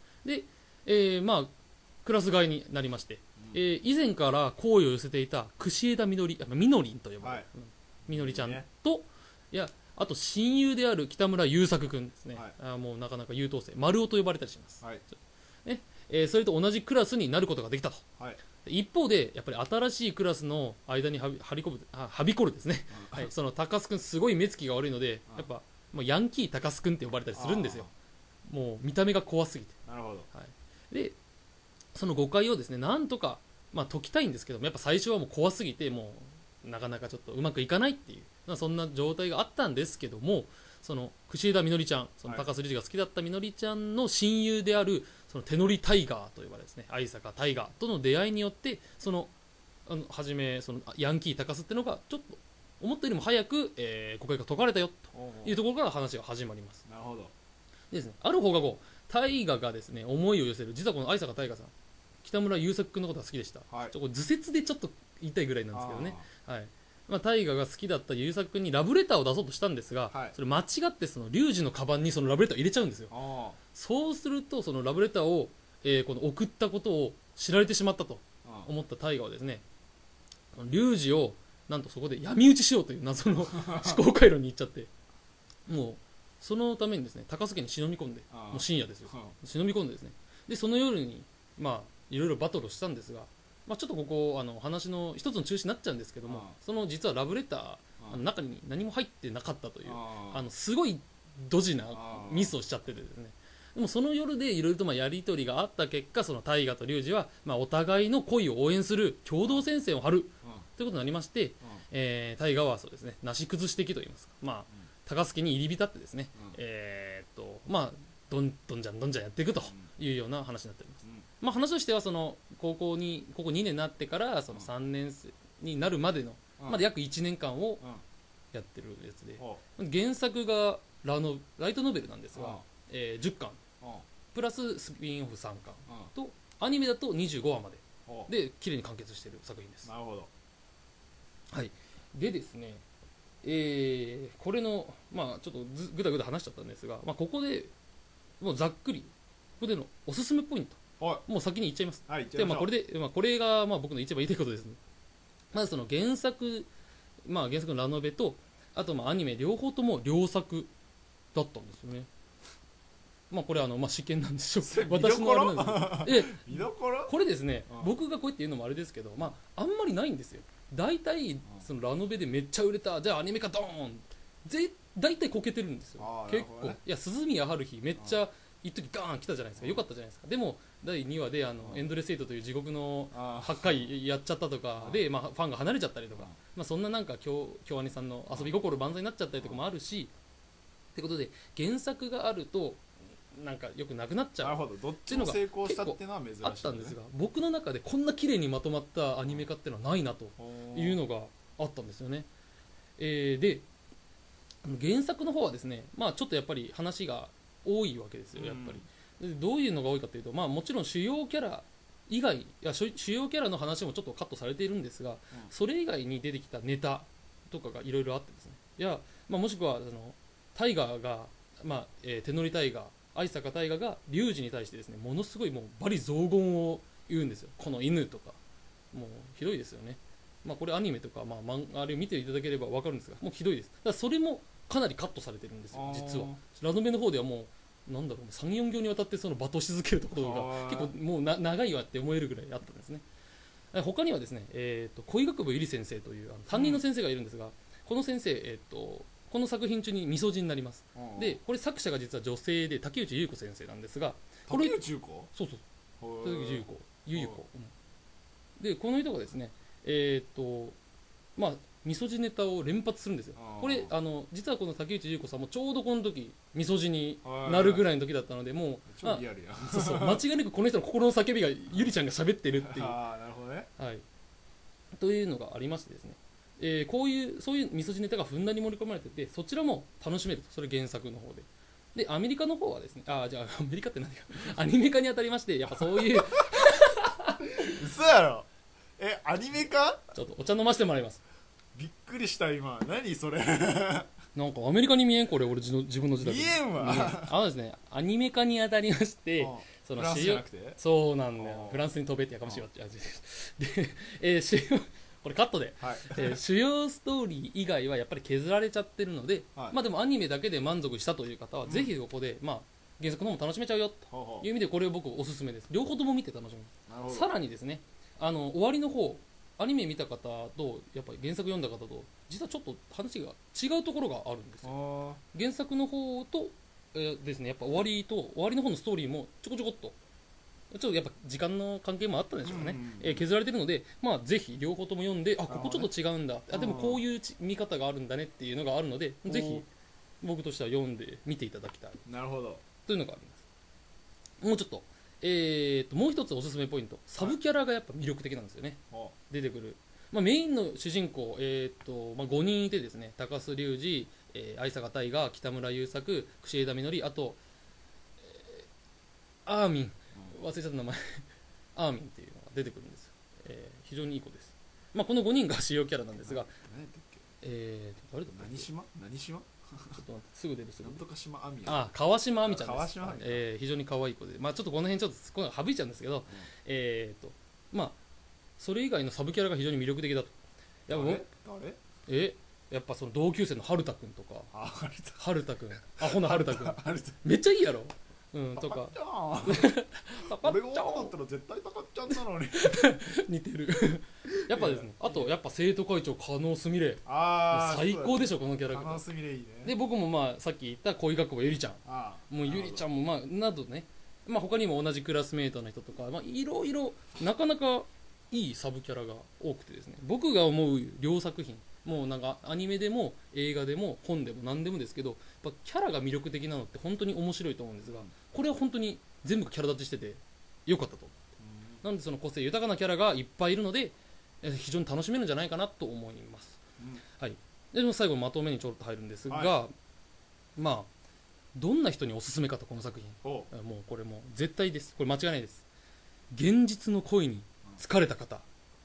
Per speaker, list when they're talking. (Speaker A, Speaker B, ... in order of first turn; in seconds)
Speaker A: 0.2-1.5, 2.0-14.8, 15.6-18.0, 18.6-27.9, 28.5-29.7, 30.3-31.1, 31.9-49.3, 49.9-56.8, 57.9-61.7, 62.2-73.1, 73.7-79.6, 80.5-84.9, 85.7-127.8, 128.5-133.6, 134.3-139.9, 141.5-142.8, 143.4-147.7, 148.4-154.8, 155.5-156.7, 157.2-160.7, 161.3-162.1, 163.3-190.1, 190.9-202.3, 203.0-203.7, 204.6-228.4, 228.9-243.0, 243.7-254.8, 255.3-255.6, 256.2-257.7, 258.6-260.8, 261.4-273.0, 273.8-274.0, 274.9-287.7, 290.1-291.2, 294.3-324.7, 325.3-329.9, 330.7-339.7, 340.2-342.0, 342.9-343.4, 344.4-348.8, 349.3-357.4, 358.2-358.7, 359.4-366.5, 367.4-368.7, 369.9-371.0, 371.6-378.0, 378.6-380.3, 380.9-381.2, 382.1-384.5, 385.2-391.1, 392.6-399.0, 399.6-421.2, 421.8-426.6, 427.2-429.7, 430.6-430.9, 431.5-435.6, 436.3-438.4
Speaker B: 8.1-8.7, 22.9-23.3, 27.3-27.9, 29.9-30.3, 55.1-55.6, 56.9-57.3, 65.7-66.2, 70.1-70.3, 73.1-73.6, 78.4-78.7, 83.4-84.0, 88.3-89.3, 96.2-96.5, 99.8-100.5, 101.9-102.5, 126.6-126.8, 132.3-132.6, 139.8-140.3, 151.0-151.2, 152.1-152.7, 164.6-167.1, 176.0-176.8, 177.9-178.2, 179.6-179.8, 183.1-183.8, 194.4-197.0, 200.4-201.0, 208.3-208.8, 235.7-236.4, 240.2-240.9, 246.5-246.8, 250.9-251.4, 254.5-255.3, 256.0-257.4, 263.4-263.9, 267.2-267.8, 268.9-270.2, 272.6-273.7, 285.9-286.2, 287.6-290.1, 291.7-294.1, 296.2-297.4, 299.4-300.8, 301.4-301.8, 305.8-306.4, 311.6-311.9, 314.1-314.5, 316.9-317.3, 324.6-325.2, 332.4-333.2, 335.5-335.9, 336.5-337.0, 339.2-339.6, 342.1-342.6, 366.2-367.2, 368.3-370.0, 370.8-371.9, 372.4-373.4, 380.9-381.8, 384.5-385.2, 386.0-387.2, 388.6-389.7, 390.2-392.9, 394.5-395.3, 397.1-399.7, 401.8-402.9, 417.8-418.1, 421.4-421.8, 429.3-429.5, 433.2-433.5